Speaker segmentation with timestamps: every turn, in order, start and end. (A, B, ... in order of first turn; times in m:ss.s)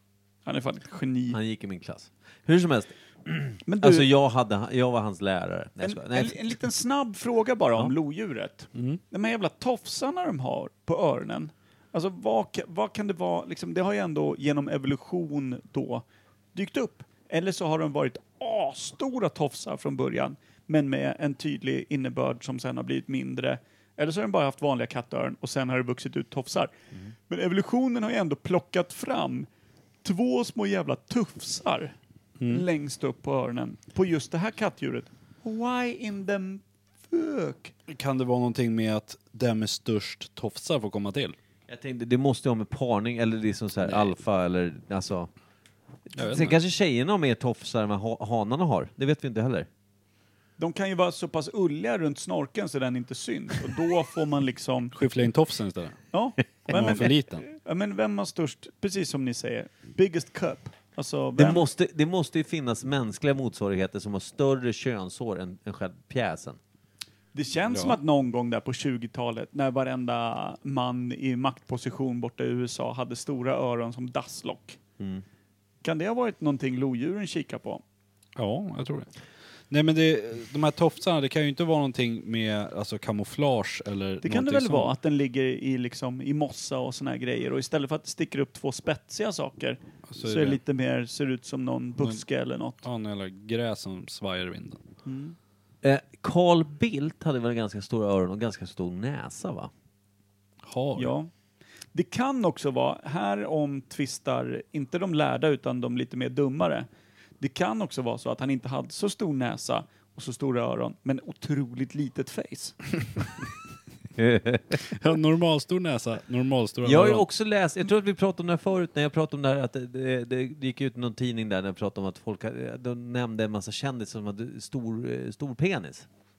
0:00.4-0:01.4 A
0:01.3-0:06.4 B
0:03.6-0:04.1 A
0:05.8-0:26.7 A
0:08.7-0:09.0 C
0:27.3-0:29.5 A
0:30.0-0:31.9 A
0:32.4-0:32.6 C
0:32.5-0:37.7 A
0:37.9-0:41.4 C
0:41.7-0:45.3 B
0:46.1-0:49.7 B
0:46.2-0:46.6 C
0:50.6-0:54.9 A
0:54.9-0:56.0 C
0:56.1-1:01.6 A
0:56.7-0:57.4 C
1:01.4-1:06.6 B
1:07.3-1:14.8 A
1:07.7-1:08.0 C
1:15.0-1:15.2 B
1:15.8-1:17.8 A
1:18.4-1:19.1 C
1:19.7-1:24.9 C
1:24.2-1:32.8 A
1:30.1-1:30.6 C
1:32.8-1:34.8 C
1:35.0-1:35.4 A
1:35.8-1:39.7 B
1:40.6-1:41.1 C
1:41.0-1:41.3 A
1:41.9-1:46.9 A
1:47.4-1:52.8 A
1:54.2-1:54.8 B
1:54.8-1:57.2 C
1:56.8-2:06.1 B